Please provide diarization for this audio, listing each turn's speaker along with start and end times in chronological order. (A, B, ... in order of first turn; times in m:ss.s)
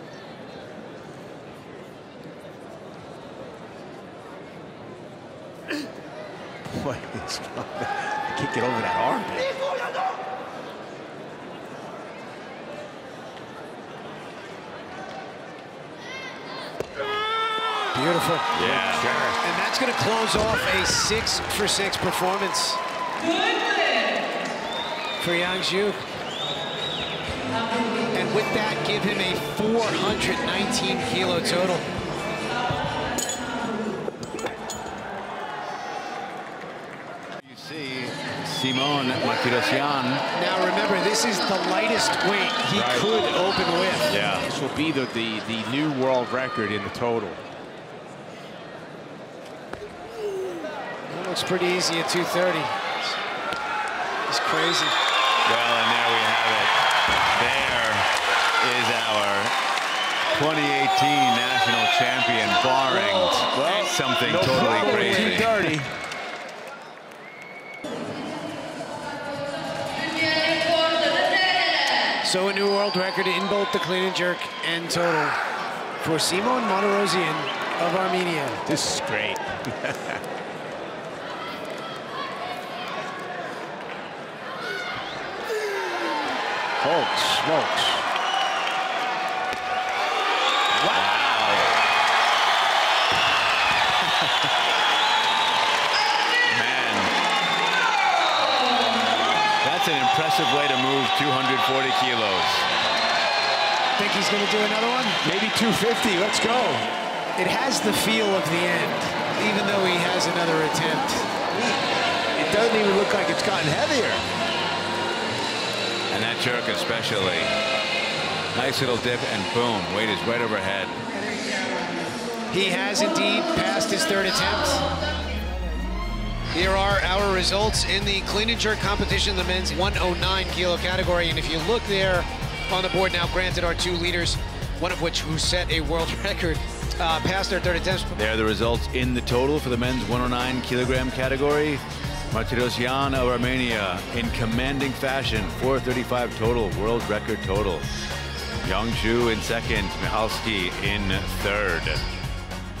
0:06.7-0:09.5 A
0:17.9-0:18.5 B
0:18.5-0:19.1 C
0:18.6-0:19.4 A
0:19.4-0:22.8 B
0:25.2-0:26.0 B
0:28.1-0:31.9 B
0:37.4-0:40.2 C
0:40.3-0:44.1 B
0:42.7-0:43.1 A
0:44.1-0:44.5 C
0:44.4-0:47.4 A
0:51.1-0:53.2 B
0:54.3-0:55.0 B
0:55.4-0:56.7 C
0:57.3-0:59.6 C
1:00.3-1:05.8 C
1:03.0-1:06.0 A
1:12.2-1:15.4 B
1:16.0-1:18.6 B
1:18.6-1:20.2 A
1:26.8-1:28.0 A
1:30.8-1:31.1 A
1:30.9-1:31.8 C
1:36.5-1:37.1 C
1:39.6-1:42.7 C
1:44.0-1:45.2 B
1:45.2-1:46.9 A
1:47.4-1:51.3 B
1:51.4-1:51.8 A
1:52.3-1:54.2 A
1:56.1-1:57.5 C
1:58.5-2:01.0 C
2:02.5-2:04.9 B
2:06.5-2:18.1 B
2:18.1-2:27.9 C
2:28.6-2:32.0 C